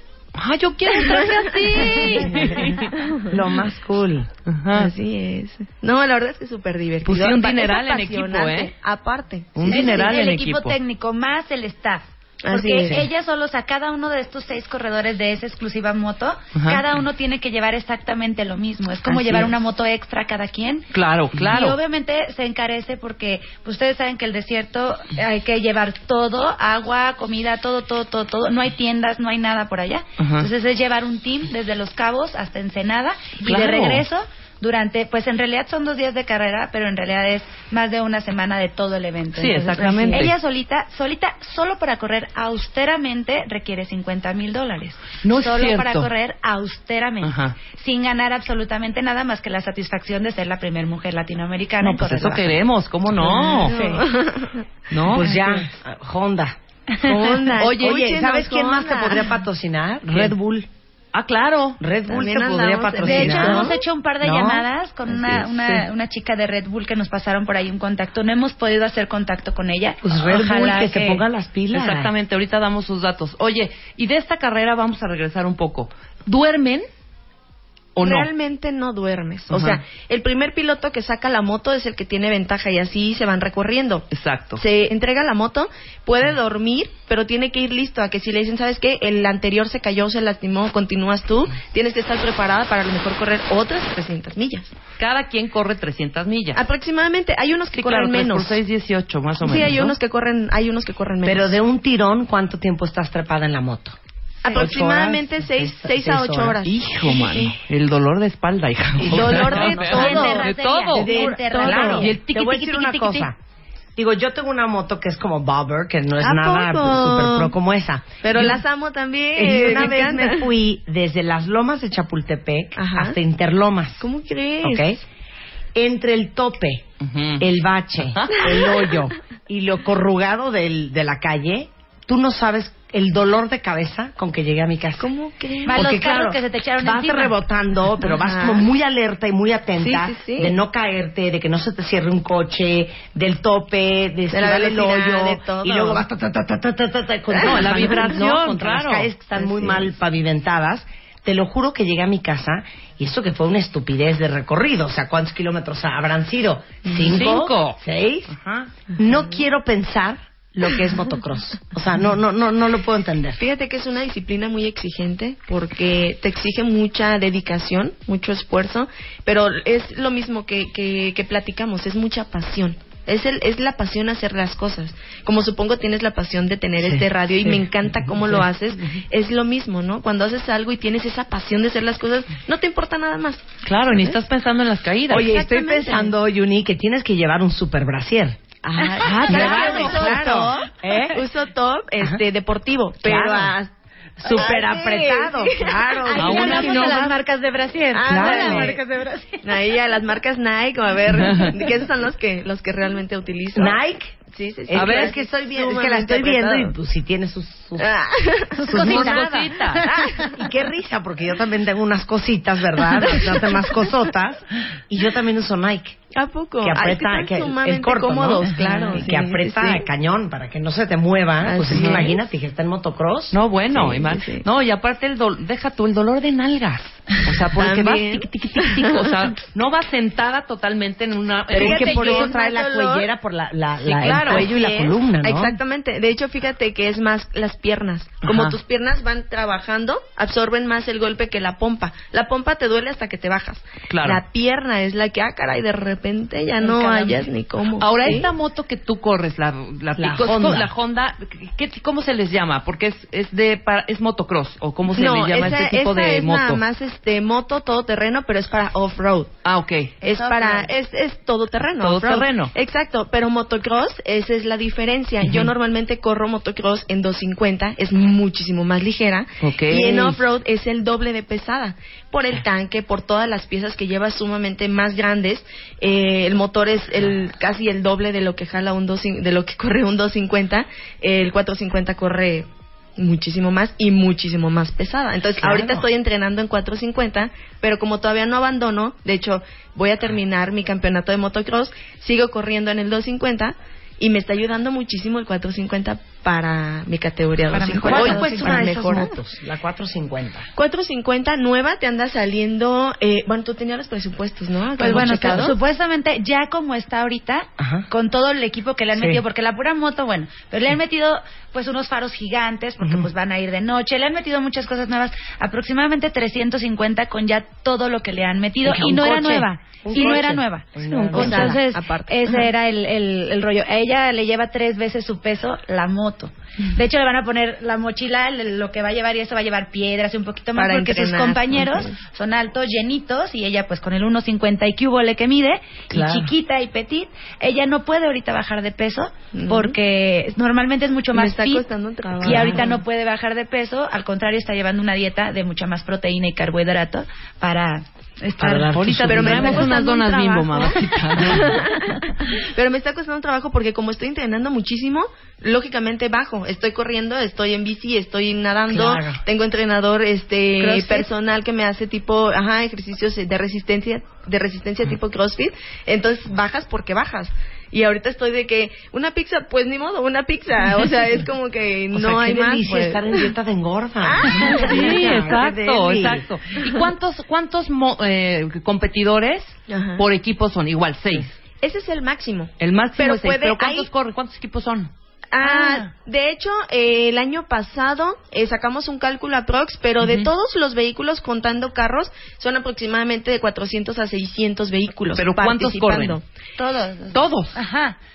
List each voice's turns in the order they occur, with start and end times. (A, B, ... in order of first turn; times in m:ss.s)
0:00.4-0:02.9 A
0:00.9-0:03.3 B
0:03.3-0:04.3 C
0:04.4-0:04.9 A
0:04.7-0:10.2 B
0:07.0-0:08.7 A
0:09.5-0:10.8 A
0:09.6-0:20.9 D
0:12.4-0:13.1 B
0:16.5-0:16.8 A
0:20.9-0:21.8 A
0:21.4-0:52.6 D
0:30.2-0:30.5 A
0:33.4-0:34.0 A
0:39.4-0:40.3 A
0:45.2-0:46.1 A
0:47.2-0:47.6 A
0:51.8-0:53.8 A
0:53.2-0:54.6 B
0:53.7-0:54.0 D
0:54.9-0:55.3 A
0:55.1-0:56.6 C
0:57.0-0:59.3 B
0:57.4-0:58.1 A
0:57.5-1:00.7 C
1:00.1-1:00.3 A
1:01.1-1:01.8 A
1:01.8-1:05.8 C
1:02.1-1:03.7 B
1:03.0-1:11.2 D
1:10.0-1:12.1 C
1:11.7-1:16.8 A
1:18.0-1:18.3 A
1:18.0-1:34.7 B
1:19.5-1:19.8 A
1:24.1-1:24.6 A
1:35.0-1:36.6 A
1:36.5-1:38.6 B
1:37.7-1:40.0 A
1:39.4-1:41.5 B
1:41.2-1:44.0 C
1:44.4-1:47.5 B
1:44.5-1:46.6 C
1:46.6-1:53.3 A
1:49.0-1:53.4 C
1:49.0-1:50.4 B
1:49.8-1:52.1 D
1:51.0-1:52.1 B
1:54.0-1:58.6 C
1:56.2-1:57.5 B
1:58.2-2:00.4 B
1:59.3-2:04.0 C
2:02.8-2:03.2 B
2:04.0-2:05.0 B
2:04.6-2:05.0 C
2:05.7-2:06.8 C
2:07.0-2:07.4 A
2:07.4-2:15.1 C
2:08.1-2:08.5 A
2:15.0-2:16.2 B
2:15.6-2:17.4 D
2:15.7-2:38.3 C
2:18.2-2:18.6 B
2:19.8-2:20.6 B
2:24.3-2:26.0 B
2:27.3-2:28.2 B
2:27.4-2:29.1 A
2:29.4-2:29.8 B
2:37.0-2:37.8 A
2:38.3-2:38.7 A
2:39.0-2:43.4 C
2:43.4-3:04.2 B
3:03.6-3:05.3 A
3:05.1-3:08.4 C
3:05.1-3:06.1 B
3:08.6-3:13.7 B
3:08.8-3:10.2 D
3:09.1-3:11.2 C
3:09.4-3:09.9 A
3:13.0-3:13.6 C
3:14.2-3:17.1 C
3:14.3-3:17.1 B
3:16.2-3:17.0 A
3:16.2-3:19.2 D
3:17.9-3:18.8 B
3:17.9-3:19.2 C
3:19.4-3:23.8 B
3:21.1-3:21.5 A
3:23.6-3:24.2 C
3:24.3-3:26.7 B
3:24.7-3:27.9 C
3:24.7-3:25.1 A
3:27.8-3:28.9 B
3:28.5-3:30.1 D
3:28.6-3:29.3 C
3:28.7-3:29.8 A
3:29.8-3:30.4 B
3:30.2-3:36.0 C
3:33.0-3:33.7 B
3:36.1-3:39.9 B
3:36.6-3:43.3 C
3:41.4-3:42.2 B
3:41.7-3:42.1 A
3:43.3-3:52.3 A
3:43.7-3:44.4 B
3:47.6-3:49.3 B
3:51.5-3:55.6 C
3:51.5-3:53.1 B
3:53.8-3:54.5 A
3:54.2-4:08.3 B
3:58.2-3:58.6 A
4:03.9-4:04.2 A
4:06.6-4:07.1 D
4:07.8-4:16.6 A
4:10.0-4:10.7 C
4:14.9-4:19.3 B
4:19.4-4:19.9 A
4:20.0-4:20.7 D
4:20.0-4:59.2 B
4:21.8-4:22.5 A
4:25.2-4:25.5 A
4:29.4-4:30.2 A
4:45.4-4:45.9 C
4:57.5-4:58.6 D
4:57.6-5:00.5 C
5:00.6-5:05.5 B
5:04.8-5:41.7 D
5:07.6-5:07.9 C
5:08.9-5:09.2 C
5:12.8-5:13.1 C
5:18.6-5:21.6 C
5:19.9-5:20.2 B
5:20.8-5:21.6 A
5:21.1-5:22.5 B
5:30.6-5:32.0 B
5:35.9-5:36.3 C
5:39.3-5:39.8 B
5:41.1-5:42.8 B
5:42.2-5:48.8 D
5:42.2-5:42.6 C
5:48.4-5:49.7 C
5:48.7-5:51.6 A
5:49.1-6:13.3 B
5:58.7-5:59.2 C
6:00.6-6:01.1 D
6:11.9-6:16.2 C
6:14.0-6:15.4 B
6:14.6-6:21.4 A
6:19.7-6:20.0 B
6:21.6-6:23.9 B
6:22.6-6:25.9 A
6:25.3-6:36.2 B
6:30.0-6:30.3 A
6:35.2-6:36.2 A
6:36.6-6:38.0 D
6:37.1-6:37.6 A